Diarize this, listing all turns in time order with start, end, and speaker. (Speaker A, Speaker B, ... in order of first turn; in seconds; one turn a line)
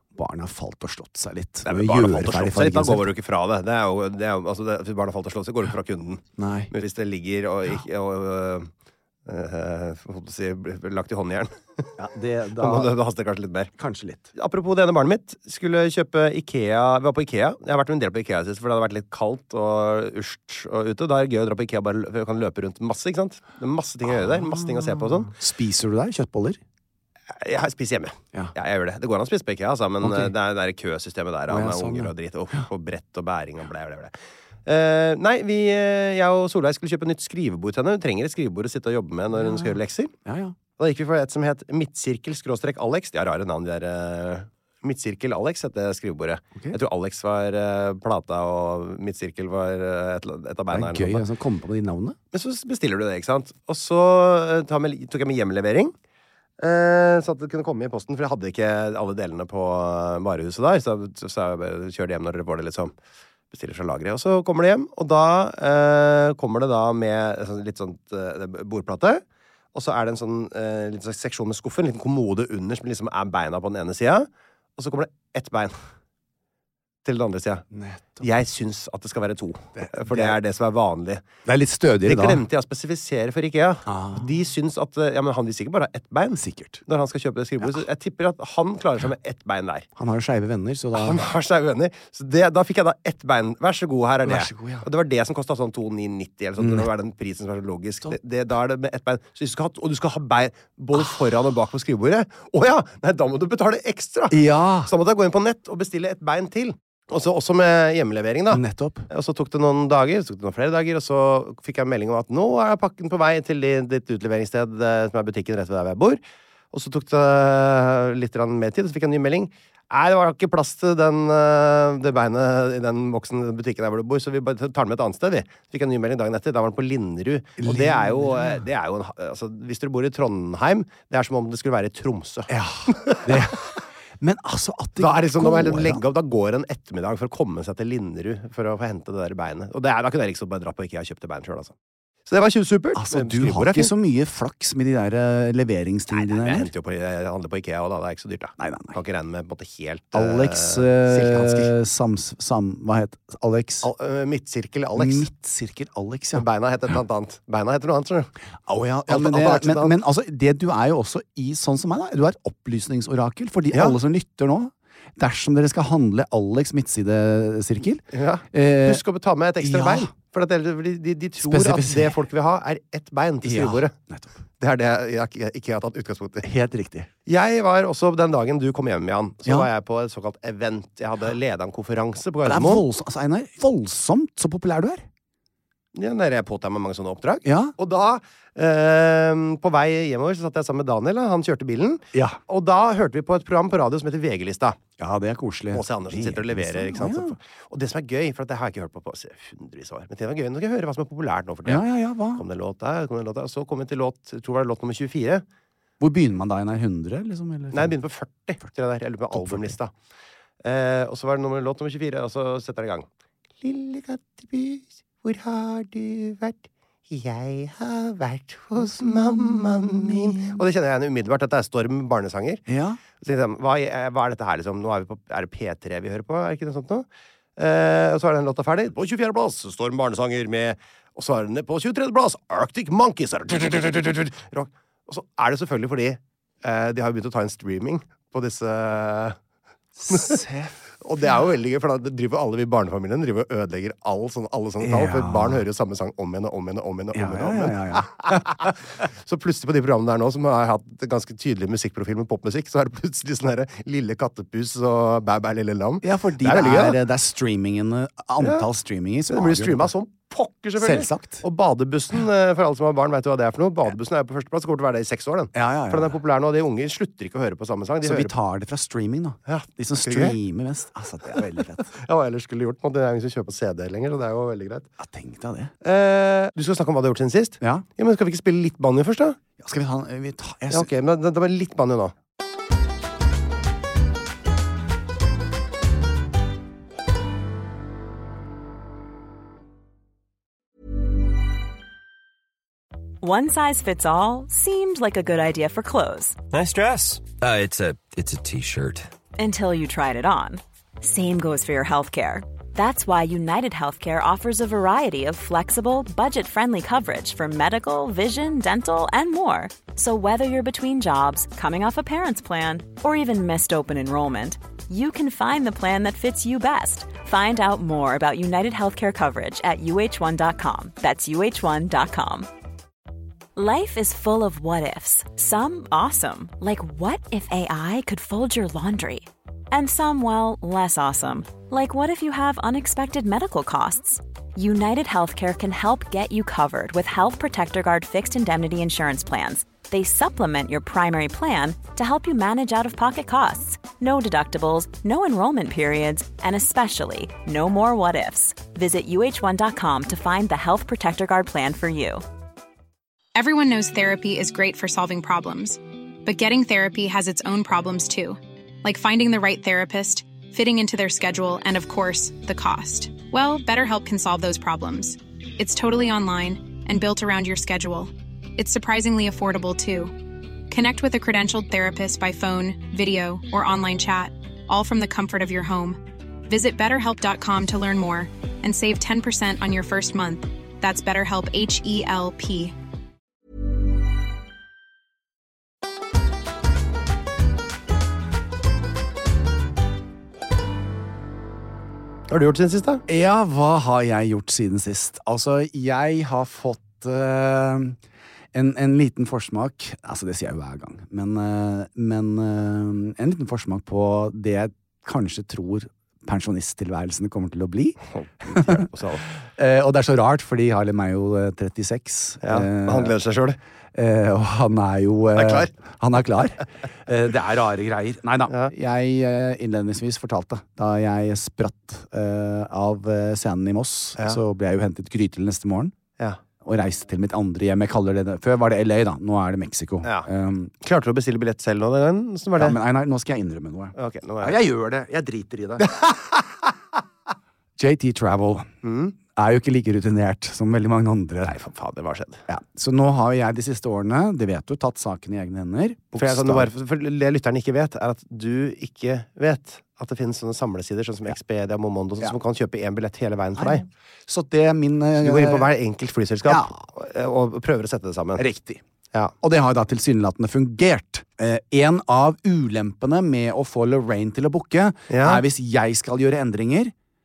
Speaker A: 0.1-3.1
Speaker B: 1.6-8.7
Speaker A: 6.4-6.7
Speaker B: 9.2-11.9
Speaker A: 12.0-12.9
Speaker B: 12.6-13.7
Speaker A: 13.8-14.3
Speaker B: 14.3-25.3
Speaker A: 24.2-26.6
Speaker B: 27.4-34.1
Speaker A: 30.0-30.3
Speaker A: 31.5-32.6
Speaker B: 34.6-40.1
Speaker A: 39.3-40.6
Speaker B: 40.8-51.2
Speaker A: 50.7-52.2
Speaker B: 52.3-55.9
Speaker B: 56.6-62.9
Speaker B: 63.5-69.2
Speaker B: 69.7-75.7
Speaker B: 77.0-77.6
Speaker A: 77.7-78.3
Speaker B: 78.2-81.2
Speaker A: 79.8-80.4
Speaker A: 81.5-82.4
Speaker B: 82.0-89.9
Speaker A: 83.9-84.2
Speaker A: 86.3-86.8
Speaker A: 90.0-91.2
Speaker B: 90.9-116.2
Speaker A: 94.2-94.8
Speaker A: 96.6-96.9
Speaker A: 104.3-104.9
Speaker A: 108.5-109.1
Speaker B: 116.7-133.5
Speaker A: 127.6-128.6
Speaker A: 132.5-133.7
Speaker A: 134.2-136.0
Speaker B: 135.0-141.7
Speaker B: 142.3-143.9
Speaker A: 142.9-146.7
Speaker B: 146.1-151.7
Speaker A: 148.6-149.0
Speaker A: 150.1-153.9
Speaker B: 153.8-155.2
Speaker A: 154.9-156.4
Speaker B: 156.3-158.3
Speaker A: 158.7-169.0
Speaker B: 159.1-159.9
Speaker B: 163.7-164.0
Speaker B: 168.1-173.9
Speaker A: 169.6-170.1
Speaker A: 171.4-172.2
Speaker A: 173.4-174.4
Speaker B: 174.6-176.5
Speaker A: 176.4-177.1
Speaker B: 177.2-182.8
Speaker A: 182.4-185.1
Speaker B: 185.9-194.8
Speaker A: 187.4-187.7
Speaker A: 192.1-192.4
Speaker A: 195.0-197.3
Speaker B: 195.7-205.4
Speaker A: 201.7-202.4
Speaker A: 206.0-207.9
Speaker B: 207.7-209.9
Speaker A: 209.3-209.8
Speaker B: 210.6-213.1
Speaker B: 213.6-222.6
Speaker A: 218.8-220.6
Speaker A: 222.7-223.0
Speaker B: 223.2-227.1
Speaker B: 227.6-239.4
Speaker A: 240.0-240.7
Speaker B: 240.1-240.4
Speaker B: 241.0-257.0
Speaker A: 244.8-245.6
Speaker A: 247.1-248.5
Speaker A: 256.0-259.9
Speaker B: 258.4-258.7
Speaker B: 259.3-268.3
Speaker A: 260.8-261.4
Speaker A: 265.5-266.2
Speaker A: 268.0-271.9
Speaker B: 269.5-270.4
Speaker B: 271.9-274.9
Speaker A: 275.0-275.7
Speaker B: 275.8-279.4
Speaker A: 279.6-280.9
Speaker B: 280.7-282.1
Speaker C: 293.2-296.4
Speaker D: 296.5-299.1
Speaker C: 299.4-322.5
Speaker C: 323.6-352.2
Speaker E: 353.3-382.8
Speaker B: 392.3-393.0
Speaker A: 393.1-398.0
Speaker A: 398.5-408.9
Speaker B: 408.2-409.2
Speaker A: 409.6-413.1
Speaker B: 412.4-413.6
Speaker A: 413.9-425.9
Speaker B: 415.3-415.7
Speaker A: 426.6-430.7
Speaker B: 430.0-430.3
Speaker B: 430.8-432.8
Speaker A: 432.6-435.9
Speaker B: 434.0-434.6
Speaker B: 435.9-436.3
Speaker A: 437.8-438.7
Speaker B: 438.8-439.1
Speaker A: 439.3-441.6
Speaker B: 441.4-442.4
Speaker A: 442.5-446.7
Speaker B: 446.1-453.9
Speaker A: 453.6-455.7
Speaker B: 455.2-458.4
Speaker A: 456.4-456.8
Speaker A: 458.4-458.8
Speaker A: 459.4-466.9
Speaker B: 465.1-465.4